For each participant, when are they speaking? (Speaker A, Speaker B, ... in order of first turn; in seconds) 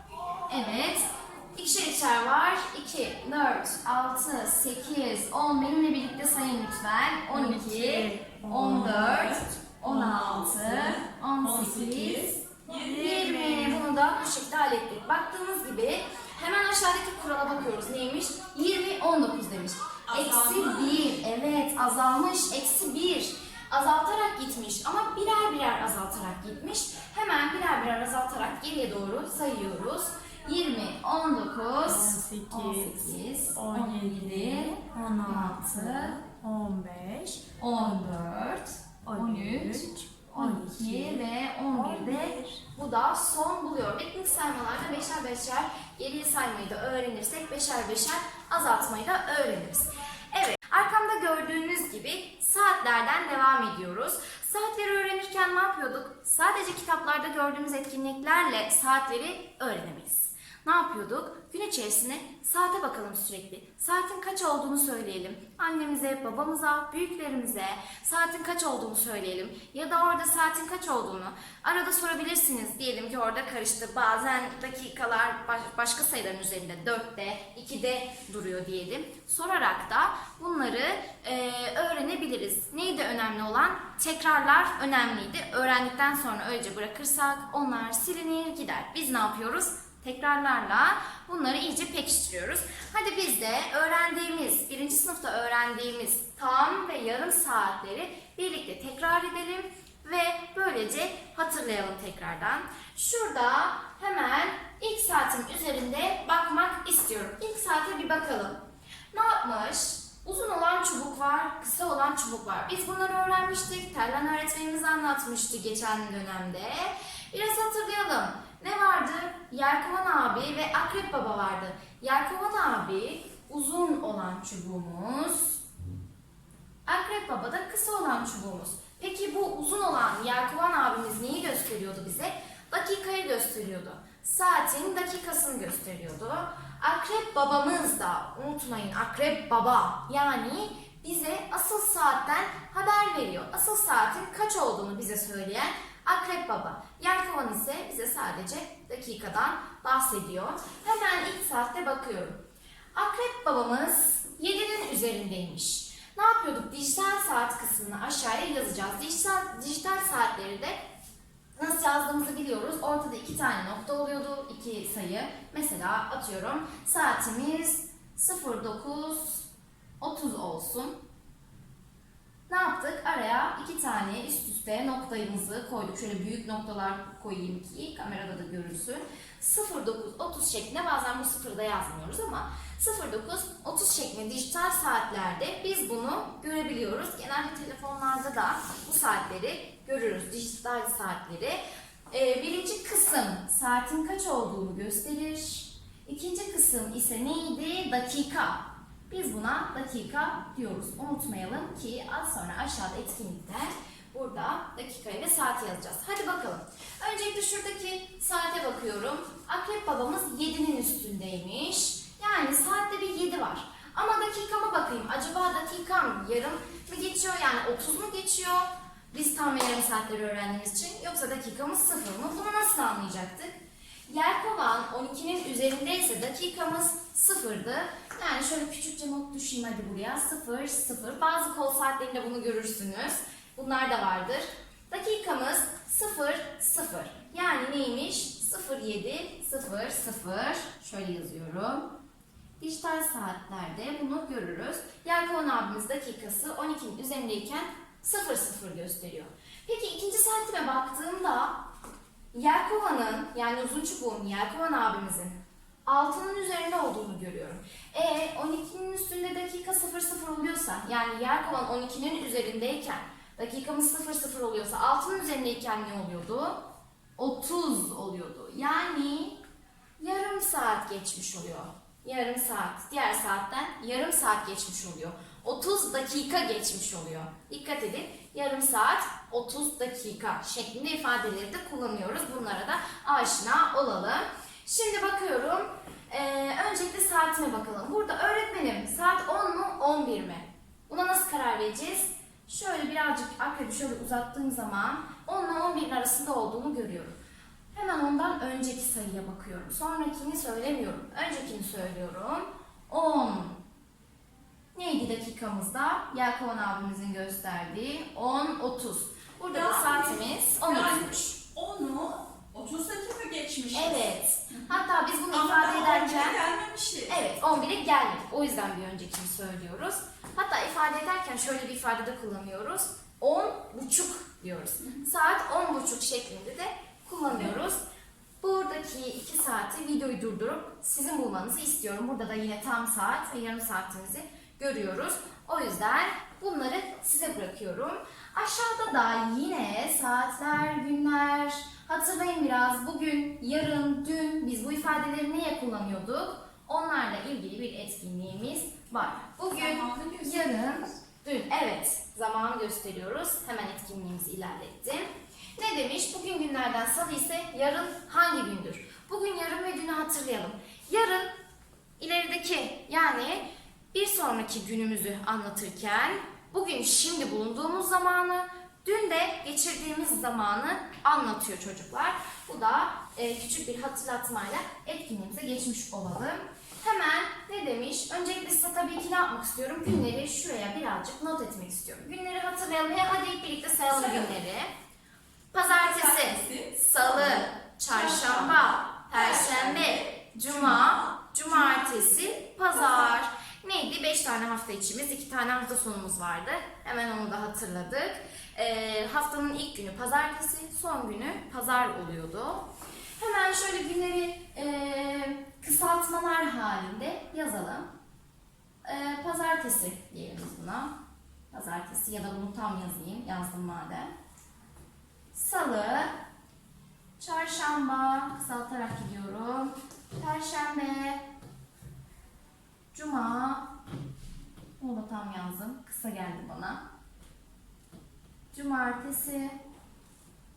Speaker A: 0.5-36.2, 37.6-125.6, 126.8-152.4, 152.9-160.8, 161.6-169.4, 170.0-171.0, 172.5-191.6, 192.1-223.5, 224.1-241.9, 242.6-251.6, 252.3-266.6, 267.2-269.4, 270.0-297.1, 297.7-303.6, 304.7-311.4, 313.7-316.4, 317.1-327.8, 328.4-361.3, 362.0-384.7, 385.5-402.7, 403.2-407.9, 408.8-410.9, 411.5-414.1, 415.3-416.1, 417.2-421.2, 422.9-423.7, 424.8-426.8, 428.5-429.6
Speaker B: 7.4-9.1, 31.9-38.0, 39.1-41.2, 41.8-42.3
Speaker C: 8.3-13.8, 20.1-21.2, 309.5-314.1, 315.3-317.2, 349.5-350.6, 383.9-384.3, 385.7-391.1, 392.8-393.1